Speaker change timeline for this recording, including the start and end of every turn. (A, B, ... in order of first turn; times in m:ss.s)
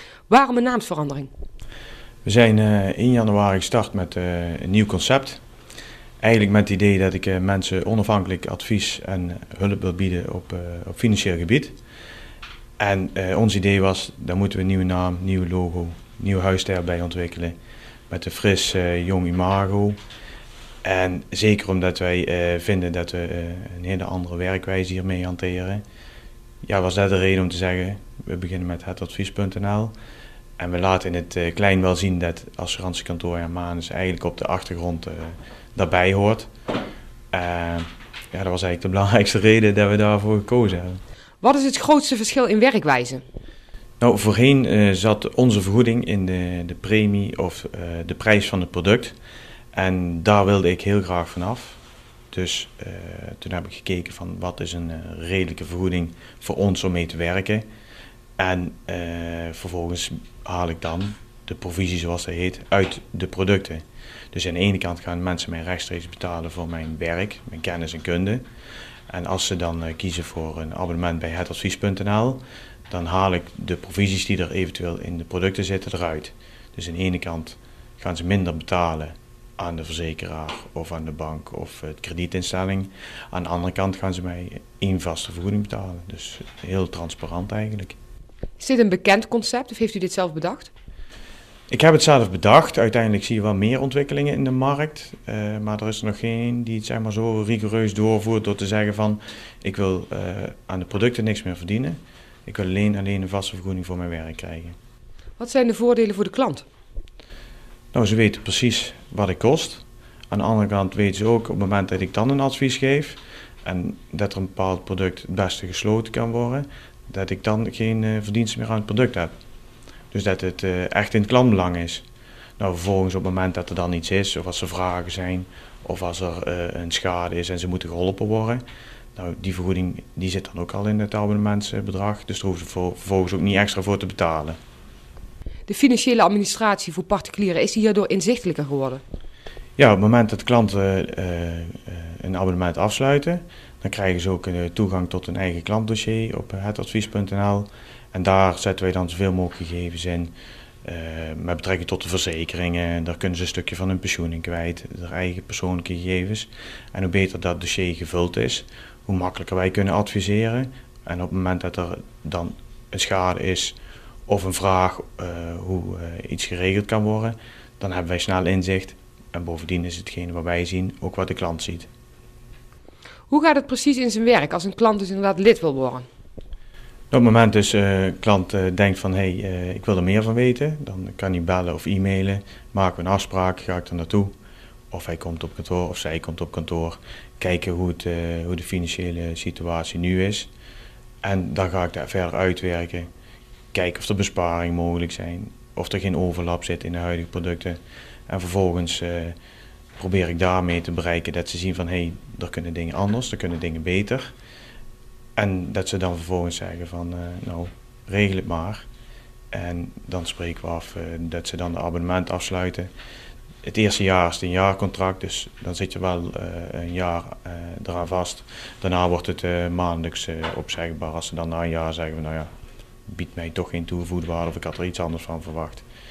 0:00.3-0:01.3 A
0:02.2-0:05.4 B
0:06.2-0:11.8 B
0:12.8-0:17.6 B
0:18.1-0:20.0 B
0:20.8-0:25.8 B
0:26.6-0:29.9 B
0:30.6-0:36.5 B
0:37.3-0:41.0 B
0:41.4-0:43.2 A
0:44.0-0:49.2 B
0:49.7-0:51.8 B
0:52.3-0:57.6 B
0:58.4-1:08.4 B
1:09.1-1:28.0 B
1:28.6-1:30.7 A
1:31.7-1:44.8 B
1:45.4-1:46.6 A
1:47.9-1:59.3 B
2:00.1-2:02.0 B
2:02.6-2:08.6 B
2:09.1-2:14.6 B
2:15.7-2:19.0 A
2:19.8-2:30.3 B
2:30.8-2:51.9 B
2:53.3-2:56.0 A
2:57.1-3:04.3 B
3:04.9-3:10.5 B
3:11.2-3:13.1 B
3:13.7-3:19.4 B
3:20.0-3:24.3 B
3:25.4-3:28.9 B
3:29.5-3:32.9 B
3:33.6-3:42.5 B
3:43.1-3:45.8 B